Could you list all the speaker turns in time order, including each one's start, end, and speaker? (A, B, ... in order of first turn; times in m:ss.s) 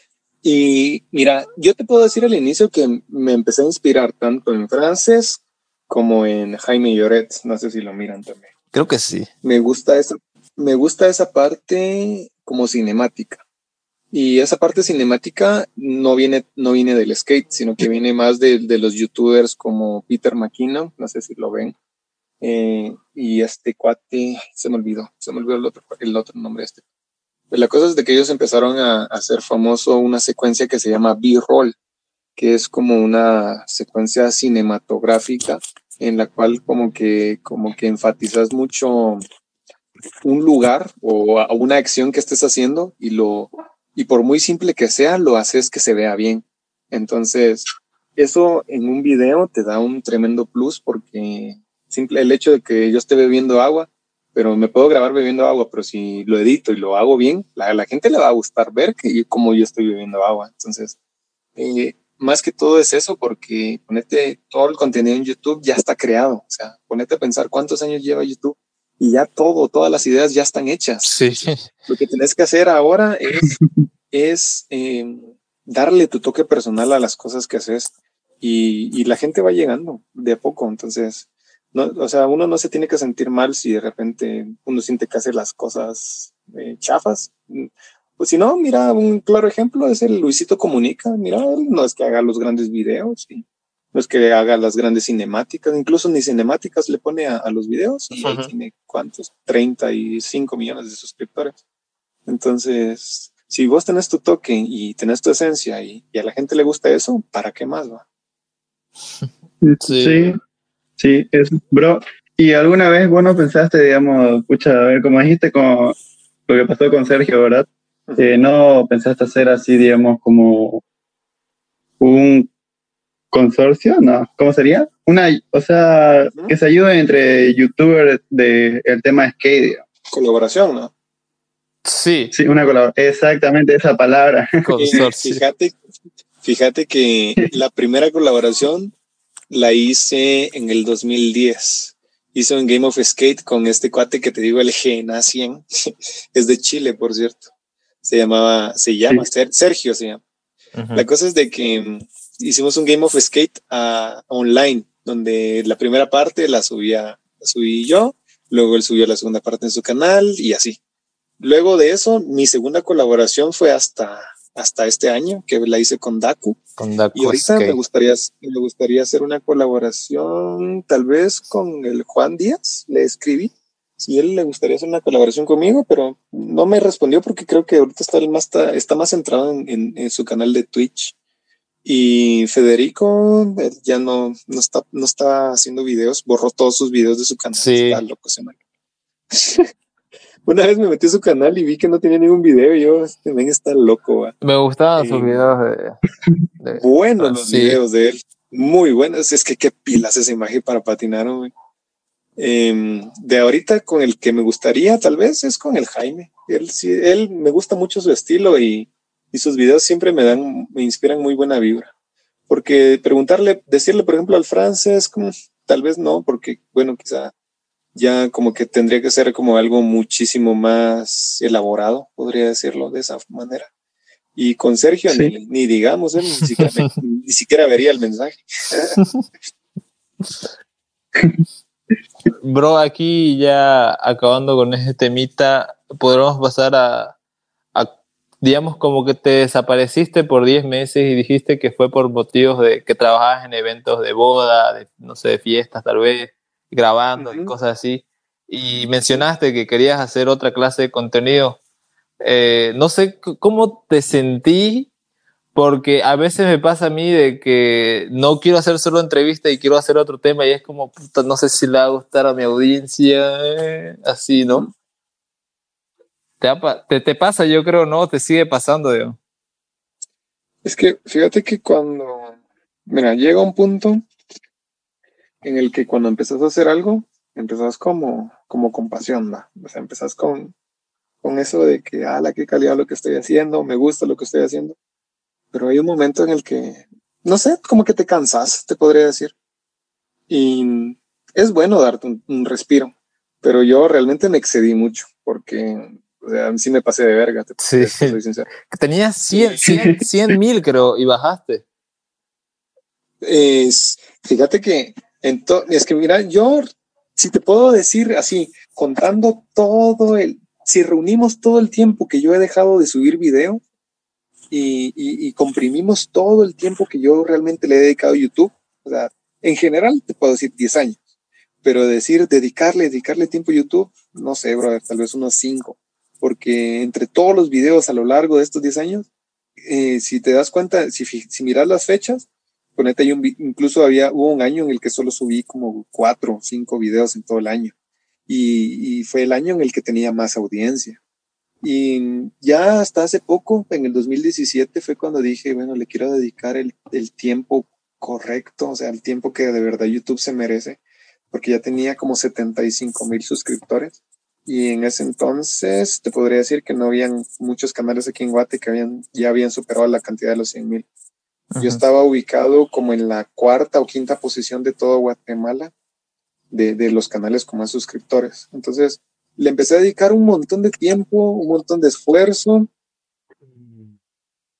0:00.4-0:08.5 A
0:08.7-0:09.3 B
0:09.4-0:13.4 A
0:14.1-0:21.7 A
0:22.4-0:26.8 A
0:27.5-0:31.7 A
0:32.4-0:39.2 A
0:40.2-0:47.6 A
0:48.2-1:00.9 A
1:01.6-1:11.1 A
1:11.0-1:11.7 B
1:11.9-1:13.6 A
1:14.1-1:41.6 A
1:38.2-1:38.5 B
1:42.2-1:48.0 A
1:49.7-1:50.4 C
1:49.8-1:50.4 B
1:51.0-1:55.9 C
1:56.5-1:57.7 C
1:58.1-1:58.4 A
1:58.2-2:00.8 C
2:02.0-2:02.5 C
2:03.3-2:09.8 C
2:10.1-2:10.9 A
2:11.8-2:12.3 B
2:12.3-2:15.0 C
2:14.6-2:15.4 B
2:14.8-2:15.8 A
2:16.4-2:18.9 A
2:19.5-2:27.5 A
2:28.0-2:30.2 A
2:30.8-2:31.0 B
2:30.9-2:40.8 A
2:41.4-2:46.6 A
2:46.8-2:47.8 B
2:47.1-3:01.1 A
3:01.8-3:08.6 A
3:07.6-3:08.0 B
3:09.3-3:09.7 A
3:10.4-3:14.3 A
3:14.4-3:16.0 B
3:15.0-3:15.4 A
3:16.6-3:17.8 B
3:16.8-3:21.5 A
3:22.4-3:31.9 A
3:32.5-3:37.3 A
3:37.9-3:43.7 A
3:44.3-3:48.9 A
3:52.3-3:57.1 B
3:57.7-4:11.6 B
4:07.2-4:07.5 A
4:12.2-4:14.9 B
4:15.5-4:24.7 B
4:26.4-4:29.2 B
4:30.6-4:34.0 A
4:35.4-4:40.5 A
4:41.2-4:44.8 A
4:45.5-4:49.3 A
4:50.3-4:58.5 A
4:57.6-5:01.6 B
4:59.3-4:59.7 A
5:03.2-5:13.6 A
5:14.5-5:21.0 A
5:21.6-5:29.1 A
5:29.6-5:37.7 A
5:38.3-5:41.0 A
5:41.6-5:50.8 A
5:51.3-6:00.8 A
6:01.5-6:01.8 B
6:01.6-6:05.7 A
6:06.5-6:12.7 A
6:13.4-6:14.0 A